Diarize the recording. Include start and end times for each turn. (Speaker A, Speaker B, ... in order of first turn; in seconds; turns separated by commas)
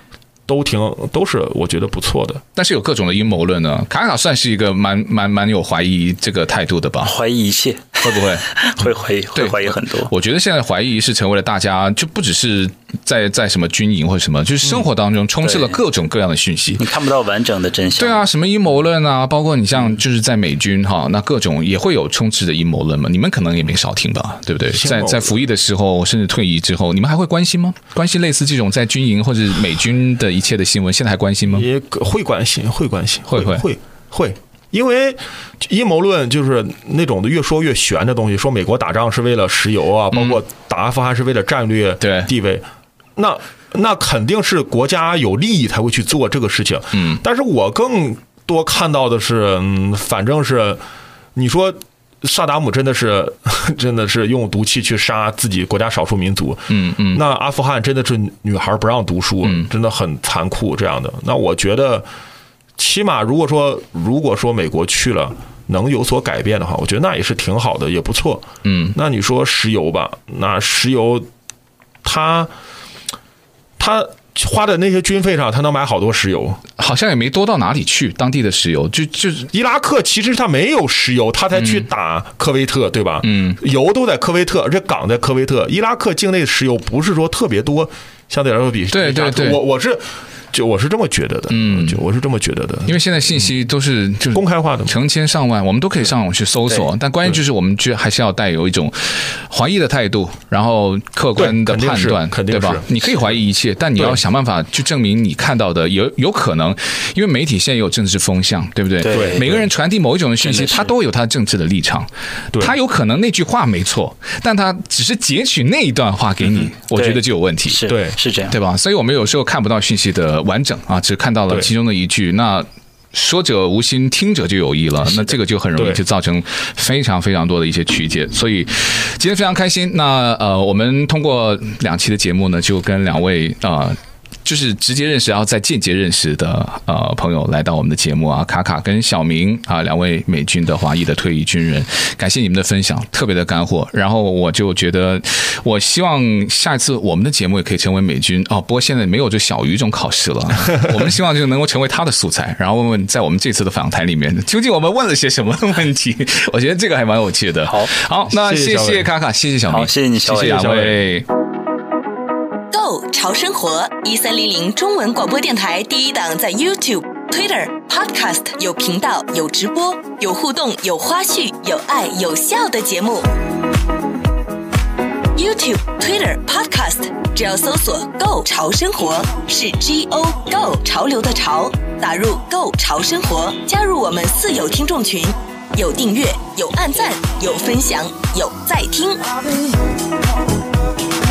Speaker A: 0.5-2.4, Speaker B: 2.6-7.1, Speaker C: 7.0-10.1, Speaker B: 8.0-8.5, Speaker B: 9.3-16.8, Speaker C: 15.4-15.8, Speaker C: 16.8-18.3, Speaker B: 18.0-31.7, Speaker A: 24.7-25.3, Speaker A: 31.5-42.7, Speaker B: 33.3-33.7, Speaker B: 40.1-40.4, Speaker B: 42.0-42.3, Speaker A: 43.2-50.8, Speaker B: 46.9-47.2, Speaker A: 51.4-62.1, Speaker B: 56.7-57.2, Speaker B: 59.4-59.7, Speaker A: 62.8-71.3, Speaker B: 68.6-69.0, Speaker A: 72.0-72.5, Speaker A: 73.8-76.6, Speaker B: 76.8-79.5, Speaker A: 79.5-93.0, Speaker B: 81.6-81.9, Speaker B: 83.2-83.6, Speaker B: 88.9-89.6, Speaker B: 91.5-92.0, Speaker B: 92.9-117.8, Speaker A: 94.3-95.0, Speaker A: 101.4-102.9, Speaker C: 109.0-109.6, Speaker A: 109.1-109.7, Speaker C: 110.4-110.9, Speaker C: 116.8-118.6, Speaker A: 117.9-118.2, Speaker B: 118.5-161.3, Speaker A: 125.8-126.0, Speaker C: 157.7-157.9, Speaker A: 158.3-159.1, Speaker C: 159.7-160.7, Speaker A: 160.4-161.0, Speaker D: 162.7-173.3, Speaker D: 175.3-189.3